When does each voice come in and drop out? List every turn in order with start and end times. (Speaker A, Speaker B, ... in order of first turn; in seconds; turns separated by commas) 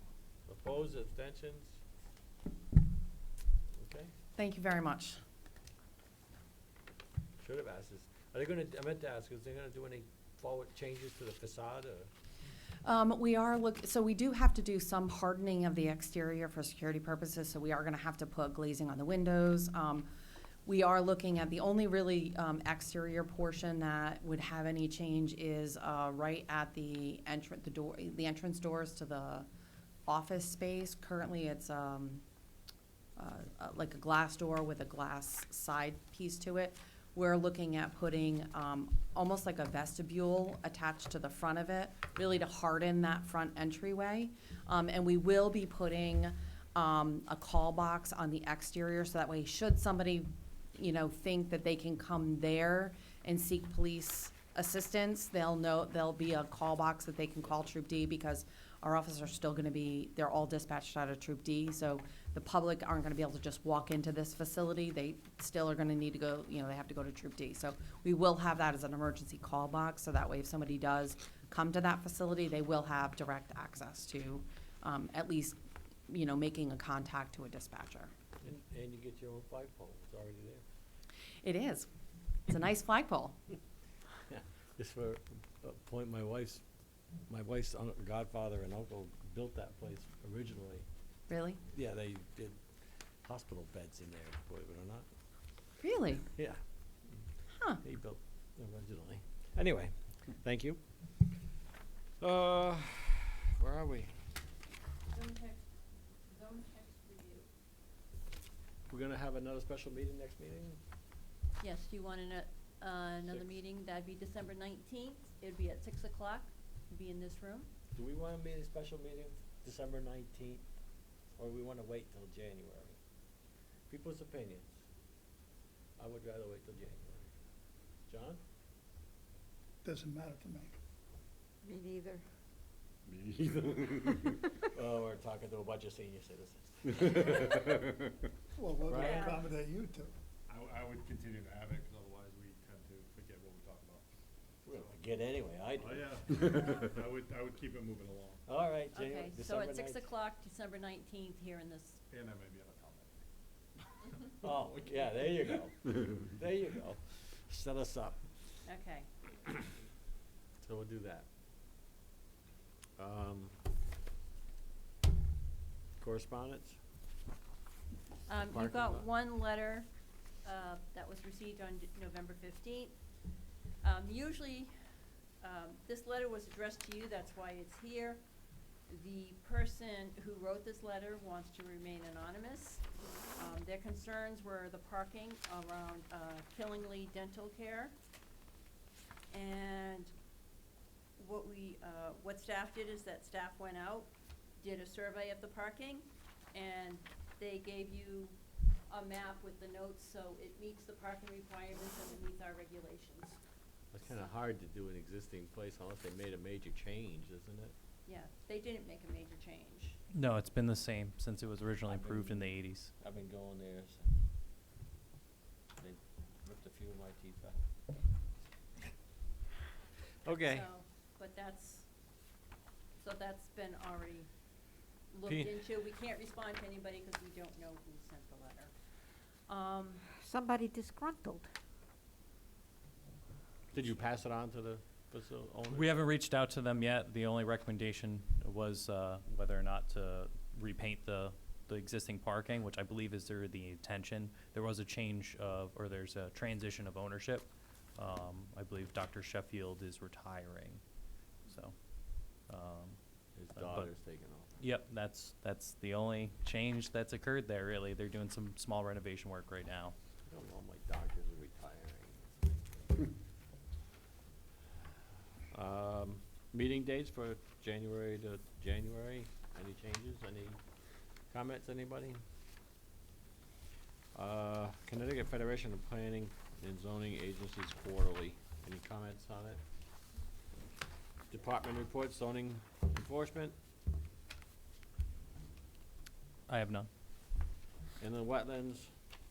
Speaker A: 0.5-1.8, Speaker A: 3.8-4.1, Speaker B: 4.4-5.2, Speaker A: 7.4-12.1, Speaker B: 12.8-20.1, Speaker B: 20.6-29.5, Speaker B: 30.1-32.2, Speaker B: 33.2-75.6, Speaker B: 76.1-78.1, Speaker A: 78.4-80.6, Speaker B: 81.4-81.9, Speaker B: 82.5-83.4, Speaker A: 84.3-86.6, Speaker A: 87.3-90.8, Speaker B: 91.3-91.6, Speaker A: 91.7-92.6, Speaker A: 93.2-95.1, Speaker B: 95.8-96.3, Speaker A: 96.3-96.6, Speaker B: 97.5-97.8, Speaker A: 97.8-100.8, Speaker A: 102.2-104.2, Speaker C: 105.1-105.5, Speaker C: 106.3-107.5, Speaker A: 108.9-110.8, Speaker C: 111.6-117.7, Speaker A: 113.3-113.5, Speaker A: 117.9-120.6, Speaker A: 121.3-123.0, Speaker A: 123.9-124.8, Speaker A: 126.0-127.4, Speaker A: 128.1-128.4, Speaker D: 129.8-130.8, Speaker E: 131.6-132.2, Speaker F: 133.1-133.8, Speaker A: 134.7-137.8, Speaker D: 138.6-140.1, Speaker A: 138.8-139.4, Speaker C: 138.9-139.5, Speaker F: 140.5-144.1, Speaker A: 144.6-146.7, Speaker F: 144.7-144.9, Speaker F: 145.8-148.4, Speaker A: 148.4-150.1, Speaker C: 148.9-152.0, Speaker F: 152.1-153.2, Speaker A: 154.4-158.3, Speaker C: 158.6-159.1, Speaker A: 160.6-161.3, Speaker A: 163.0-163.6, Speaker A: 166.0-166.8, Speaker C: 168.3-169.9, Speaker A: 168.3-169.1, Speaker C: 170.4-172.9, Speaker C: 173.8-174.7, Speaker C: 175.4-178.2, Speaker C: 178.9-187.9, Speaker C: 189.3-190.1, Speaker C: 191.2-198.4, Speaker C: 198.9-203.4, Speaker A: 203.9-207.7, Speaker C: 208.1-210.0, Speaker G: 210.1-212.9, Speaker A: 211.9-214.1, Speaker A: 215.8-217.6, Speaker A: 220.2-220.7, Speaker C: 220.4-221.9, Speaker C: 223.0-224.3, Speaker C: 225.1-228.7, Speaker A: 225.3-225.5, Speaker C: 229.5-230.1, Speaker E: 230.2-231.5, Speaker A: 233.7-235.9, Speaker G: 235.7-250.8, Speaker G: 251.5-253.0, Speaker A: 253.3-254.5, Speaker G: 253.6-253.9, Speaker G: 254.6-259.9, Speaker A: 260.3-262.8, Speaker A: 265.5-270.6, Speaker A: 271.3-272.2, Speaker A: 274.1-279.6, Speaker A: 281.3-283.5, Speaker G: 286.5-286.9, Speaker A: 288.0-288.9